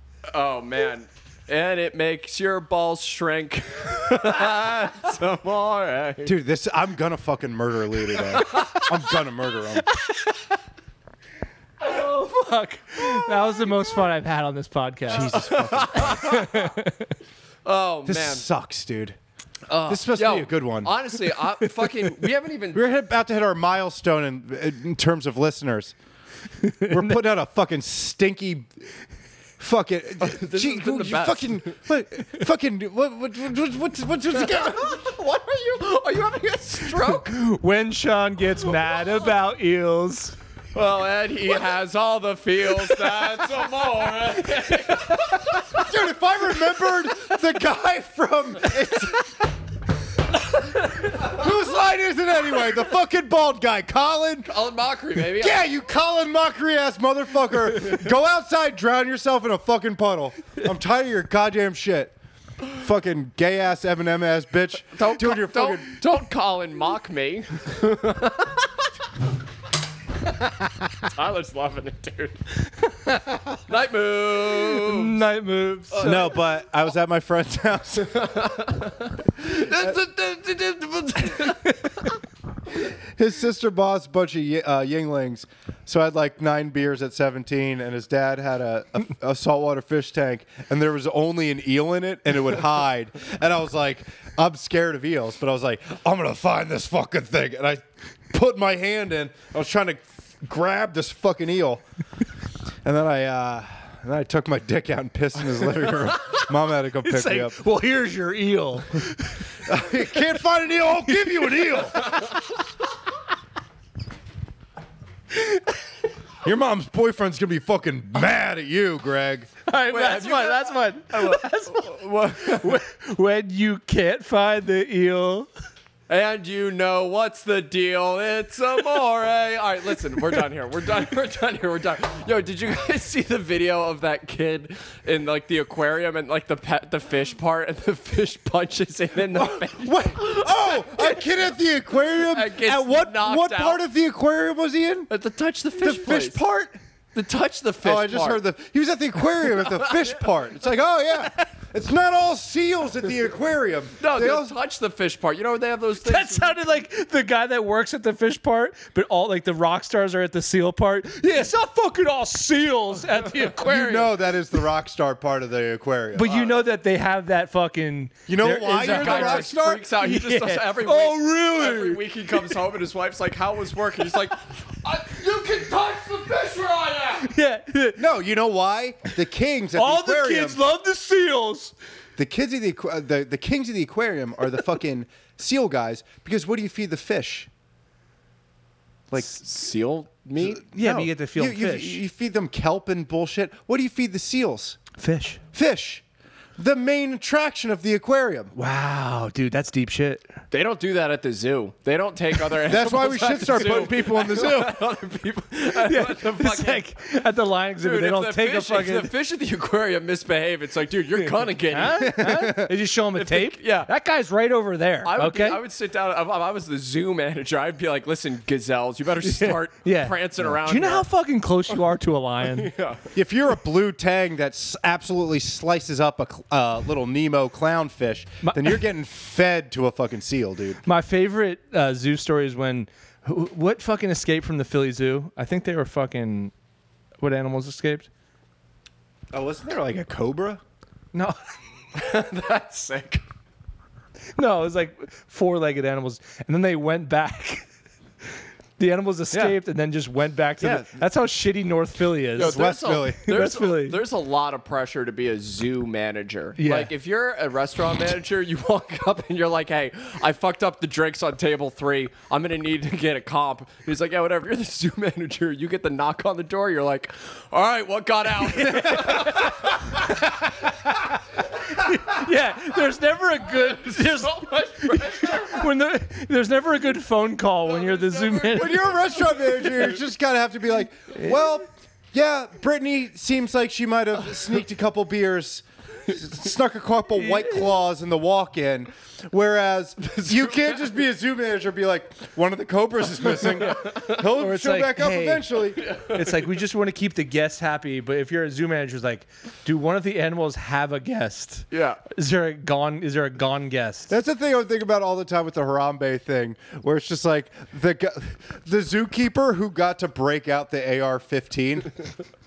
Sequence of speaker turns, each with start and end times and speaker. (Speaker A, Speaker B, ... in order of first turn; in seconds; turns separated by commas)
Speaker A: 0.3-6.4, Speaker B: 6.2-9.9, Speaker A: 8.5-8.8, Speaker C: 9.9-10.6, Speaker C: 11.8-17.1, Speaker B: 15.1-16.5, Speaker A: 15.1-16.7, Speaker A: 17.6-18.5, Speaker B: 18.1-19.2, Speaker A: 19.7-22.9, Speaker B: 19.9-21.0, Speaker B: 22.7-25.9, Speaker C: 26.6-27.1, Speaker B: 26.9-28.8, Speaker B: 29.6-35.0, Speaker A: 30.2-31.8, Speaker A: 34.3-37.4, Speaker C: 37.0-40.4, Speaker A: 40.7-45.9, Speaker B: 45.7-49.4, Speaker B: 51.1-54.5, Speaker A: 54.5-55.6, Speaker B: 55.2-62.1, Speaker B: 62.7-65.9, Speaker A: 64.9-68.7, Speaker A: 71.0-72.4, Speaker C: 72.9-73.6, Speaker A: 73.7-75.3, Speaker C: 74.7-76.2, Speaker A: 75.9-76.4, Speaker B: 76.0-78.4, Speaker A: 78.1-82.1, Speaker B: 82.8-101.8, Speaker B: 102.8-107.6, Speaker C: 107.0-109.5, Speaker B: 109.6-112.2, Speaker C: 111.2-112.2, Speaker C: 115.3-115.7, Speaker B: 116.4-119.5, Speaker C: 119.7-125.5, Speaker A: 119.9-122.8, Speaker A: 126.1-141.4, Speaker B: 139.3-145.1, Speaker A: 142.0-143.8, Speaker A: 145.1-146.4, Speaker B: 145.8-146.8, Speaker A: 147.1-148.4, Speaker B: 147.8-154.6, Speaker A: 149.5-150.3, Speaker A: 154.0-156.6, Speaker C: 156.0-164.1, Speaker B: 163.7-166.4, Speaker C: 166.1-172.6, Speaker A: 166.3-166.6, Speaker B: 168.3-169.9, Speaker A: 168.8-177.3, Speaker C: 177.2-178.0, Speaker B: 178.0-180.6, Speaker C: 179.8-181.7, Speaker B: 182.2-187.5, Speaker A: 189.1-190.6, Speaker B: 190.4-194.8, Speaker C: 190.7-192.0, Speaker C: 195.0-195.4, Speaker B: 195.5-196.0, Speaker B: 196.6-198.5, Speaker C: 198.6-200.3, Speaker A: 200.5-206.9, Speaker B: 202.6-204.8, Speaker C: 205.8-209.1, Speaker A: 207.8-212.5, Speaker C: 211.7-215.6, Speaker B: 212.0-212.7, Speaker A: 213.1-213.9, Speaker A: 215.0-221.1, Speaker C: 219.2-222.7, Speaker A: 222.5-223.1, Speaker B: 223.1-230.8, Speaker C: 228.4-228.8, Speaker C: 230.8-236.5, Speaker C: 237.2-238.1, Speaker B: 239.3-240.6, Speaker C: 241.1-241.4, Speaker A: 241.9-243.2, Speaker C: 244.4-247.6, Speaker C: 248.8-252.7, Speaker B: 249.3-249.6, Speaker B: 250.6-251.0, Speaker A: 252.4-269.9, Speaker B: 252.4-253.3, Speaker C: 253.3-254.0, Speaker C: 256.6-256.9, Speaker B: 268.8-269.2, Speaker C: 269.9-271.2, Speaker C: 271.7-279.2, Speaker A: 273.4-275.7, Speaker A: 277.7-279.9, Speaker B: 278.5-295.9, Speaker C: 287.2-287.7, Speaker A: 290.1-290.6, Speaker C: 294.4-304.1, Speaker A: 295.9-296.4, Speaker A: 301.7-302.0, Speaker B: 304.1-312.1